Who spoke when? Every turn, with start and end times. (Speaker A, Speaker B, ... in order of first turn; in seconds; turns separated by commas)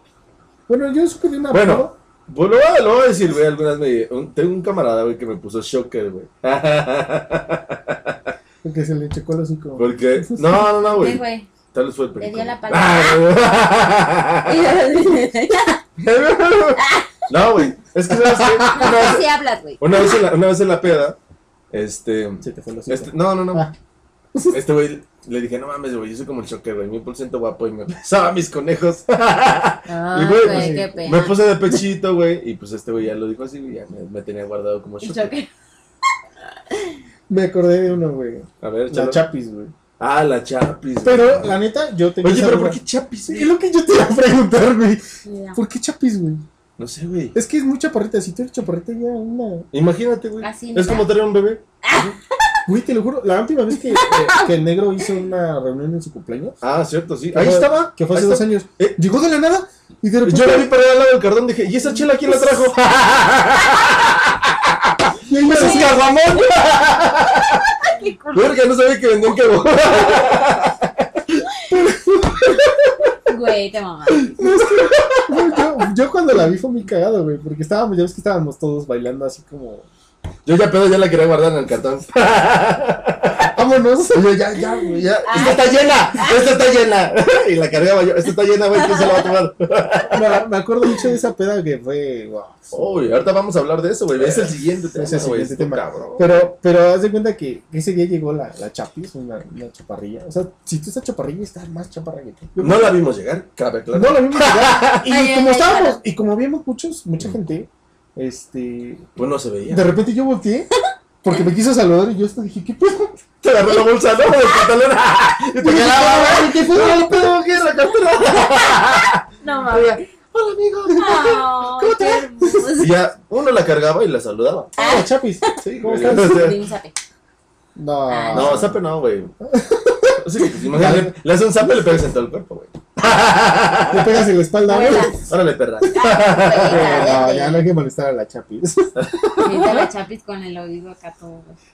Speaker A: 0.7-1.9, Speaker B: 1.5-8.3, Speaker A: 8.6-10.6, Speaker B: 9.8-14.8, Speaker C: 10.9-11.5, Speaker C: 12.2-13.3, Speaker C: 14.4-15.8, Speaker B: 16.0-19.3, Speaker C: 16.8-17.1, Speaker A: 18.3-18.9, Speaker C: 18.7-20.2, Speaker B: 19.8-21.2, Speaker B: 21.7-23.6, Speaker A: 22.4-23.7, Speaker B: 24.5-35.3, Speaker C: 29.9-31.8, Speaker A: 30.3-31.0, Speaker C: 35.0-35.5, Speaker C: 36.5-37.0, Speaker A: 37.3-39.7, Speaker B: 38.6-39.2, Speaker B: 40.0-41.6, Speaker A: 41.0-45.0, Speaker B: 42.2-43.5, Speaker C: 45.2-45.6, Speaker A: 45.5-46.4, Speaker B: 46.8-47.3, Speaker A: 47.3-49.7, Speaker B: 49.7-52.1, Speaker C: 50.4-51.1, Speaker C: 51.8-52.6, Speaker A: 52.7-56.6, Speaker C: 53.9-54.5, Speaker B: 54.1-54.4, Speaker B: 56.6-59.0, Speaker A: 57.3-60.7, Speaker B: 60.2-67.7, Speaker C: 61.9-62.7, Speaker A: 65.2-66.0, Speaker C: 65.4-66.8, Speaker C: 67.4-68.6, Speaker B: 68.3-71.5, Speaker A: 71.7-72.3, Speaker B: 72.4-72.8, Speaker C: 73.2-74.4, Speaker B: 74.1-75.6, Speaker A: 74.4-79.8, Speaker B: 80.5-83.5, Speaker A: 83.5-85.5, Speaker B: 84.1-90.4, Speaker C: 85.2-86.5, Speaker C: 88.8-89.3, Speaker A: 90.1-93.2, Speaker B: 92.7-96.4, Speaker A: 94.2-103.0, Speaker B: 102.6-105.0, Speaker A: 103.9-109.1, Speaker C: 105.1-106.0, Speaker B: 109.2-109.9, Speaker A: 109.7-110.7, Speaker A: 111.2-113.2, Speaker B: 113.4-121.4, Speaker A: 115.6-117.4, Speaker C: 118.1-120.1, Speaker C: 120.9-122.9, Speaker A: 121.8-122.8, Speaker B: 122.8-124.7, Speaker A: 124.8-126.5, Speaker C: 124.8-127.0, Speaker B: 125.6-126.6, Speaker A: 127.8-128.8, Speaker C: 128.1-128.6, Speaker B: 128.3-129.3, Speaker A: 129.4-131.2, Speaker B: 130.2-134.2, Speaker A: 133.9-135.2, Speaker C: 134.7-135.2, Speaker B: 135.3-137.2, Speaker C: 135.9-137.7, Speaker A: 136.6-139.7, Speaker B: 138.9-139.8, Speaker C: 139.3-141.6